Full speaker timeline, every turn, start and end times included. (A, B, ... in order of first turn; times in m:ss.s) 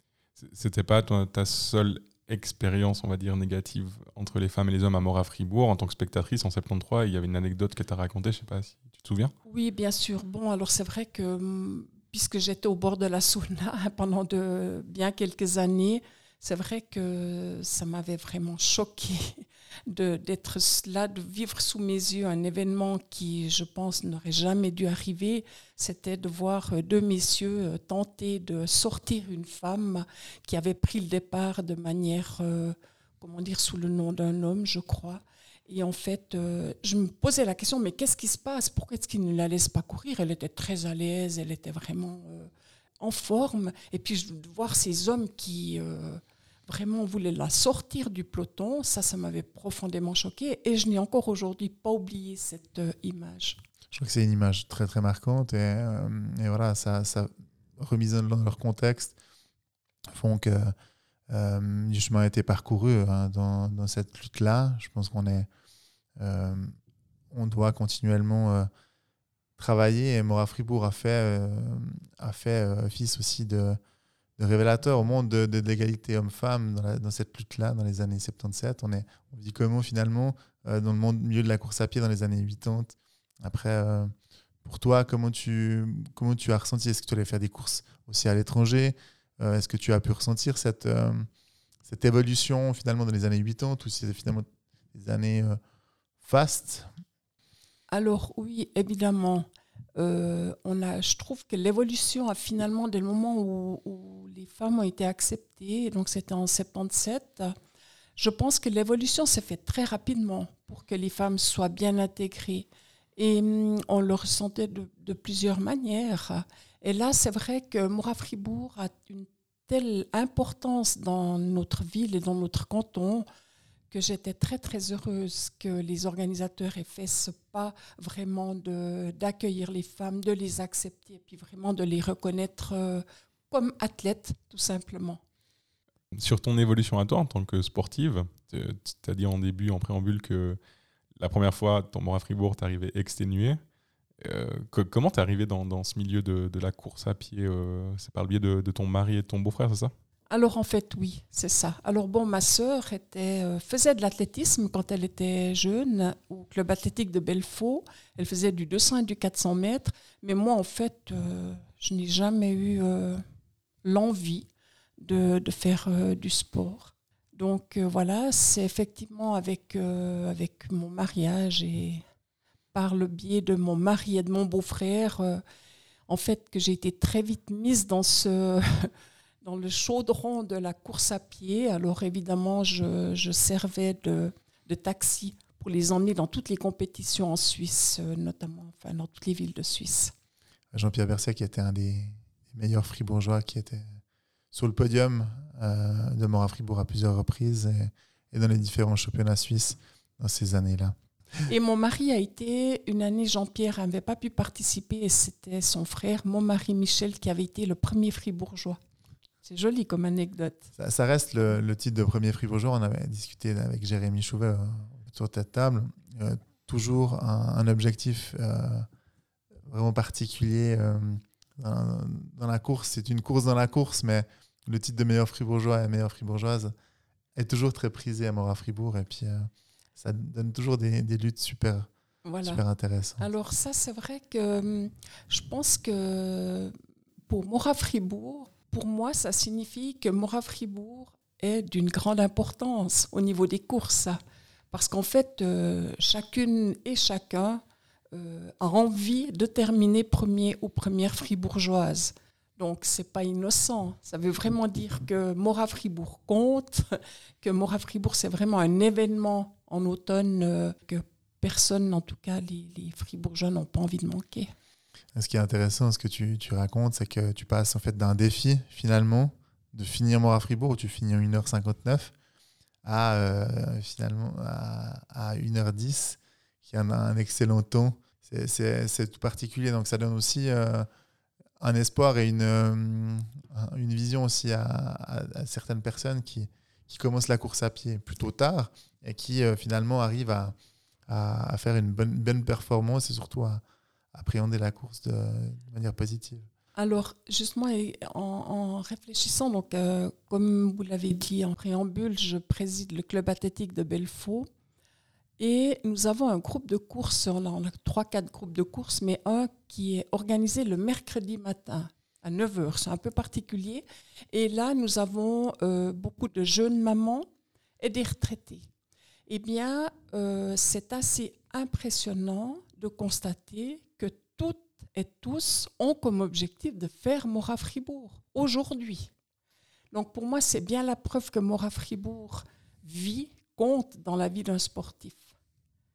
0:00.4-0:09.3 A
0:09.4-0:53.6 B
0:53.9-0:59.2 C
1:00.1-1:00.7 C
1:01.3-1:05.5 C
1:06.2-1:06.8 C
1:07.3-1:08.7 C
1:09.6-1:13.8 C
1:14.4-1:24.1 C
1:24.6-1:31.3 C
1:31.8-1:35.6 C
1:36.2-1:36.9 C
1:37.9-1:47.6 B
1:48.2-2:03.2 B
2:03.9-2:15.2 B
2:16.1-2:20.6 A
2:21.2-2:23.6 A
2:24.2-2:29.9 A
2:30.3-2:43.2 B
2:43.8-2:44.5 B
2:45.0-2:52.0 B
2:52.7-2:55.4 B
2:56.1-3:10.1 B
3:10.7-3:14.0 C
3:14.5-3:21.0 C
3:21.5-3:28.8 B
3:29.4-3:30.7 B
3:30.8-3:38.9 C
3:39.7-3:46.7 C
3:47.4-3:51.9 C
3:52.2-3:52.6 B
3:52.4-3:53.3 C
3:53.2-3:56.8 B
3:57.3-4:04.2 B
4:04.7-4:24.5 B
4:25.1-4:32.1 C
4:32.8-4:40.9 C
4:41.6-4:50.5 C
4:51.1-4:53.6 C
4:54.1-4:56.5 C
4:56.8-5:04.5 B
5:05.4-5:17.2 B
5:17.8-5:18.7 B
5:19.3-5:29.1 B
5:29.9-5:35.3 B